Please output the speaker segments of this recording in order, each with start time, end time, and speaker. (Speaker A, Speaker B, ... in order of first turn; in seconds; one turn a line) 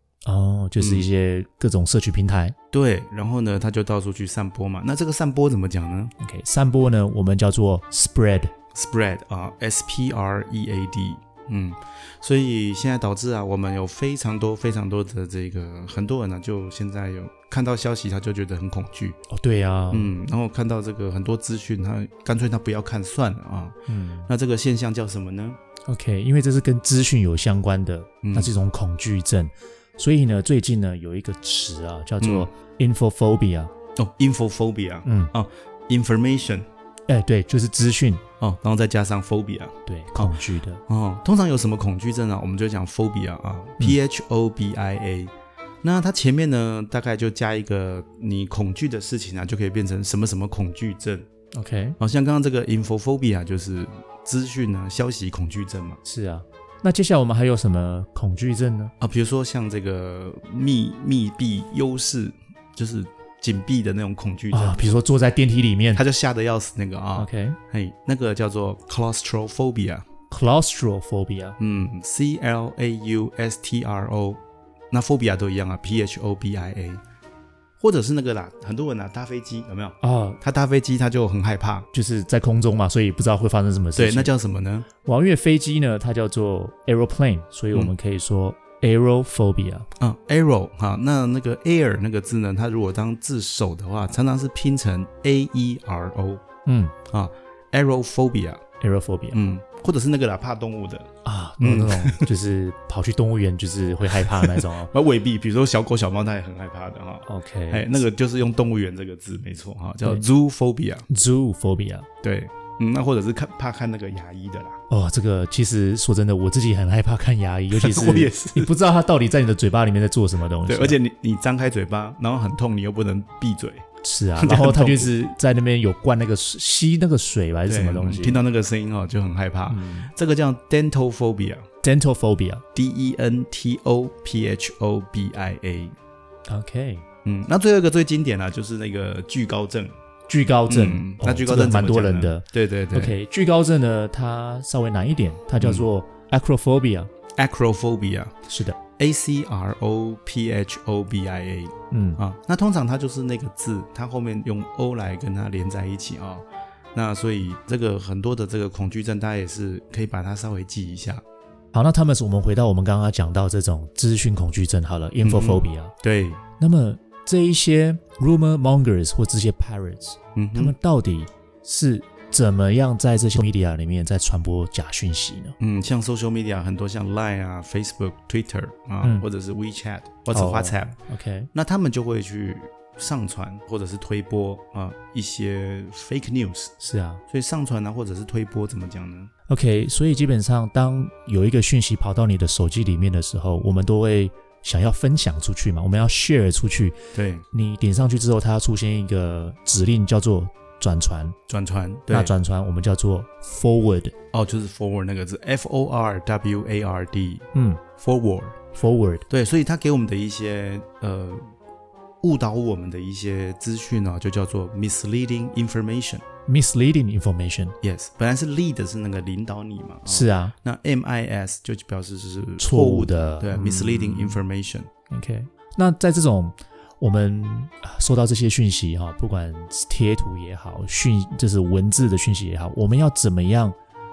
Speaker A: 0.2-2.5
Speaker B: 0.8-1.1
Speaker B: 2.7-6.1
Speaker A: 6.2-8.5
Speaker B: 8.7-19.2
Speaker A: 19.3-20.1
Speaker B: 19.9-25.6
Speaker A: 23.9-24.3
Speaker A: 25.9-33.7
Speaker B: 28.2-28.5
Speaker B: 32.2-32.5
Speaker B: 34.0-36.7
Speaker A: 35.0-35.3
Speaker A: 37.1-38.2
Speaker B: 38.4-40.4
Speaker A: 39.9-40.8
Speaker B: 40.9-51.3
Speaker A: 51.5-52.0
Speaker B: 52.0-56.0
Speaker A: 56.0-58.9
Speaker B: 59.0-65.0
Speaker A: 64.5-66.0
Speaker B: 65.9-70.0
Speaker A: 67.2-67.6
Speaker A: 70.3-71.6
Speaker B: 71.6-77.0
Speaker B: 77.8-81.9
Speaker A: 80.0-80.4
Speaker A: 81.9-84.3
Speaker B: 83.9-84.9
Speaker A: 85.0-89.9
Speaker B: 90.0-96.4
Speaker A: 96.7-96.9
Speaker B: 97.1-98.6
Speaker A: 98.8-99.4
Speaker B: 99.3-102.3
Speaker A: 101.2-104.9
Speaker B: 104.2-111.0
Speaker A: 107.2-108.0
Speaker A: 111.1-112.1
Speaker B: 112.2-114.8
Speaker A: 114.9-121.0
Speaker B: 117.7-118.7
Speaker B: 120.7-123.8
Speaker A: 124.0-128.4
Speaker B: 124.4-125.1
Speaker B: 127.7-131.6
Speaker A: 129.7-130.1
Speaker A: 131.8-132.6
Speaker B: 132.7-135.9
Speaker A: 136.5-137.0
Speaker B: 137.2-139.9
Speaker A: 140.3-147.1
Speaker B: 140.7-143.1
Speaker B: 145.6-145.8
Speaker B: 147.3-148.3
Speaker A: 148.5-148.8
Speaker B: 149.0-161.2
Speaker A: 151.9-152.2
Speaker A: 161.7-165.9
Speaker B: 165.2-166.4
Speaker A: 166.6-175.6
Speaker B: 170.3-170.7
Speaker B: 175.6-181.0
Speaker A: 180.3-181.5
Speaker B: 181.5-186.7
Speaker A: 186.8-187.2
Speaker B: 187.3-189.3
Speaker A: 189.5-197.0
Speaker B: 197.1-197.4
Speaker A: 197.5-201.3
Speaker B: 201.5-202.3
Speaker A: 202.1-204.1
Speaker B: 204.3-207.4
Speaker A: 207.5-207.8
Speaker B: 208.0-208.6
Speaker A: 208.7-209.2
Speaker B: 209.3-211.5
Speaker B: 212.2-216.2
Speaker A: 216.5-217.8
Speaker B: 217.8-224.9
Speaker A: 220.1-220.5
Speaker A: 222.6-224.4
Speaker A: 225.1-233.8